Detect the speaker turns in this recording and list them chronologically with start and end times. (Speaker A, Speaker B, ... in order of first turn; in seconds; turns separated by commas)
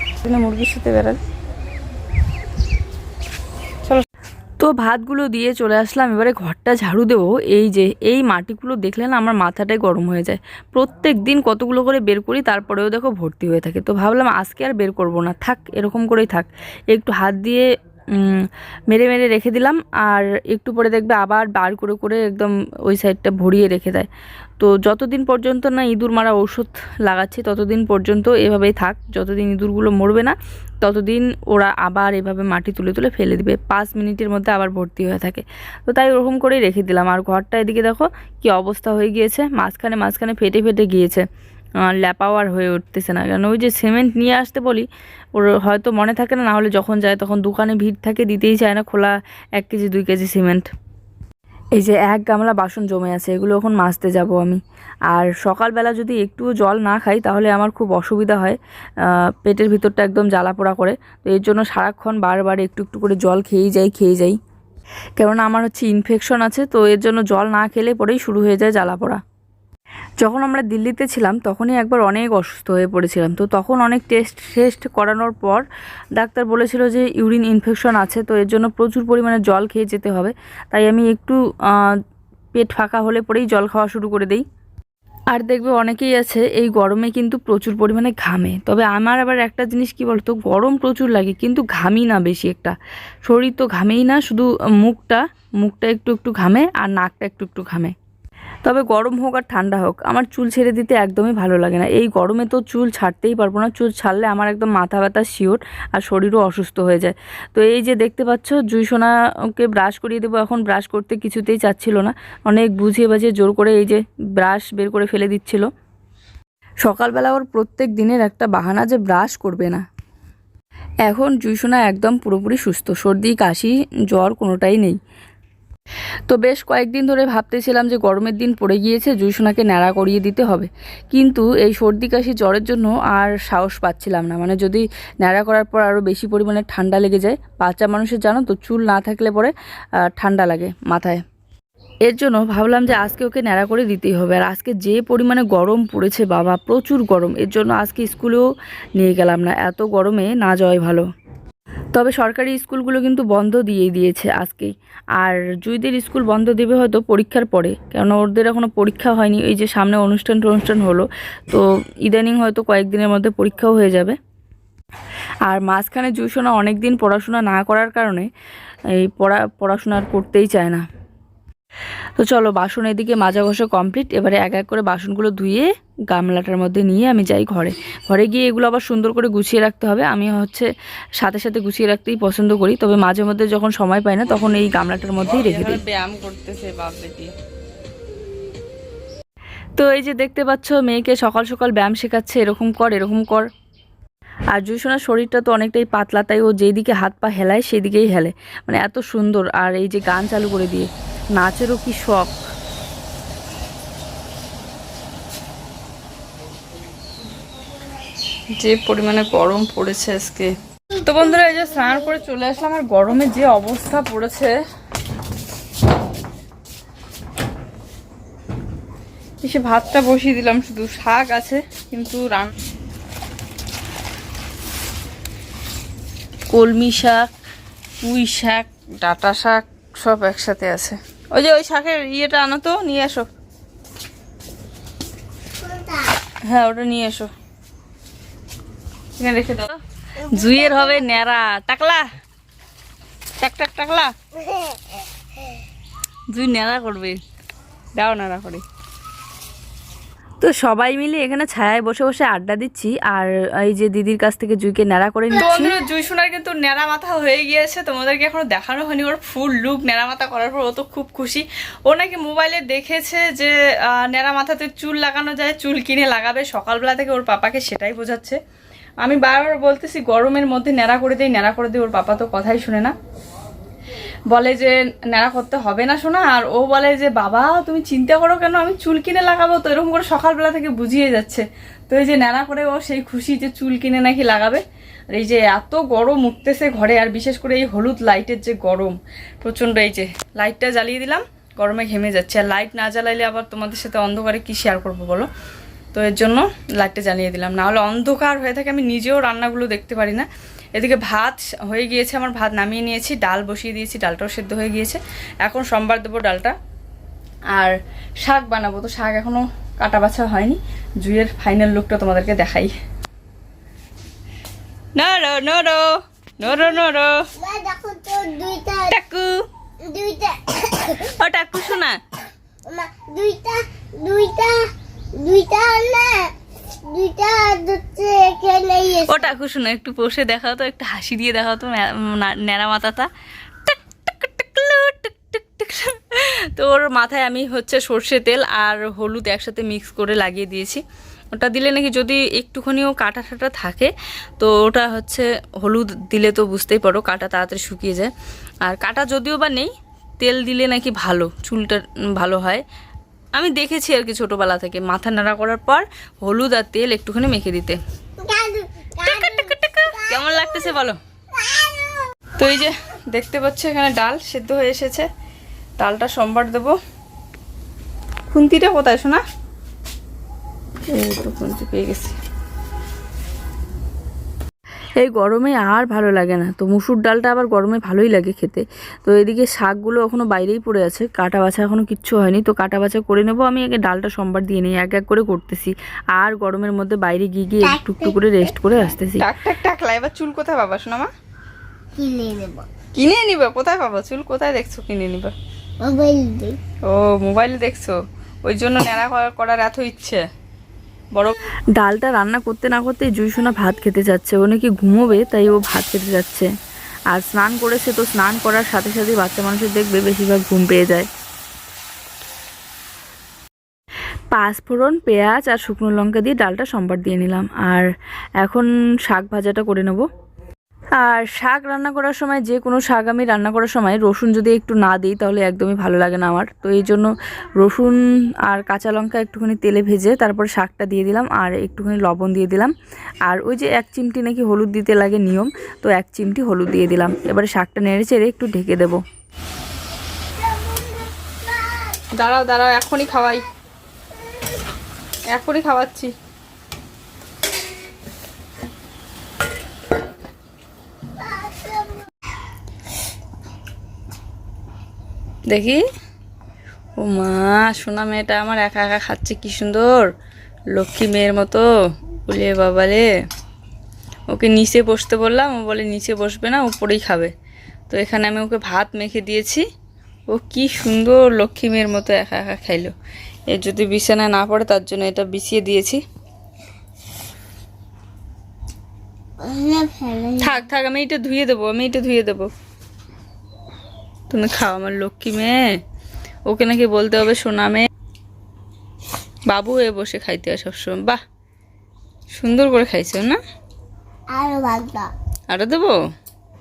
Speaker A: 0.2-1.2, Speaker B: 4.6-41.3, Speaker B: 41.8-50.7, Speaker B: 51.8-54.6, Speaker B: 55.1-64.4, Speaker B: 65.2-69.2, Speaker B: 70.2-75.7, Speaker B: 76.2-82.0, Speaker B: 82.5-84.5, Speaker B: 85.3-98.0, Speaker B: 98.7-115.7, Speaker B: 116.8-119.8, Speaker B: 121.1-125.0, Speaker B: 126.3-139.5, Speaker B: 140.1-141.2, Speaker B: 142.1-151.1, Speaker B: 151.9-164.2, Speaker B: 165.5-168.3, Speaker B: 168.9-170.9, Speaker B: 172.2-185.8, Speaker A: 185.2-187.3, Speaker B: 189.8-193.5, Speaker B: 194.5-202.4, Speaker A: 208.6-214.6, Speaker A: 219.4-222.5, Speaker B: 226.5-227.3, Speaker B: 228.1-228.6, Speaker A: 228.2-233.3, Speaker C: 235.6-236.1, Speaker A: 236.6-237.2, Speaker A: 239.2-239.8, Speaker C: 240.4-240.8, Speaker B: 240.4-242.0, Speaker A: 243.4-244.1, Speaker C: 244.5-244.8, Speaker B: 246.3-247.2, Speaker A: 248.0-248.6, Speaker B: 250.4-255.8, Speaker A: 255.3-268.4, Speaker A: 269.0-272.9, Speaker A: 274.3-295.3, Speaker A: 295.9-306.6, Speaker A: 307.6-312.7, Speaker A: 315.0-315.9, Speaker A: 316.4-317.1, Speaker C: 317.4-318.9, Speaker B: 319.0-319.3, Speaker C: 319.8-321.1, Speaker B: 321.2-322.0, Speaker C: 322.7-326.3, Speaker C: 326.9-329.3, Speaker B: 329.1-333.1, Speaker B: 333.7-340.8, Speaker B: 341.3-348.1, Speaker B: 348.7-352.6, Speaker B: 353.4-357.8, Speaker C: 358.2-360.7, Speaker B: 359.0-361.0, Speaker C: 361.3-362.1, Speaker A: 362.4-365.1, Speaker A: 365.8-366.8, Speaker A: 368.3-369.2, Speaker A: 370.9-372.1, Speaker B: 375.0-389.3, Speaker C: 387.6-388.9, Speaker A: 389.2-391.1, Speaker C: 392.0-392.7, Speaker A: 392.9-395.3, Speaker C: 395.8-396.6, Speaker A: 396.8-400.2, Speaker B: 401.8-406.5, Speaker B: 407.1-411.1, Speaker B: 414.3-417.9, Speaker B: 418.4-420.1, Speaker B: 421.0-432.7, Speaker B: 433.2-439.0, Speaker C: 440.4-442.0, Speaker A: 442.2-443.4, Speaker A: 445.3-446.1, Speaker C: 451.2-452.1, Speaker A: 455.5-455.8, Speaker A: 457.0-460.1, Speaker A: 460.7-461.7, Speaker A: 462.3-463.1, Speaker A: 464.3-467.3, Speaker A: 467.9-469.6, Speaker A: 470.3-472.9, Speaker A: 473.5-476.0, Speaker C: 479.4-480.7, Speaker A: 480.4-482.5, Speaker A: 484.3-485.6, Speaker A: 486.5-487.9, Speaker A: 489.5-491.2, Speaker A: 492.3-493.4, Speaker C: 494.3-495.1, Speaker A: 495.5-496.0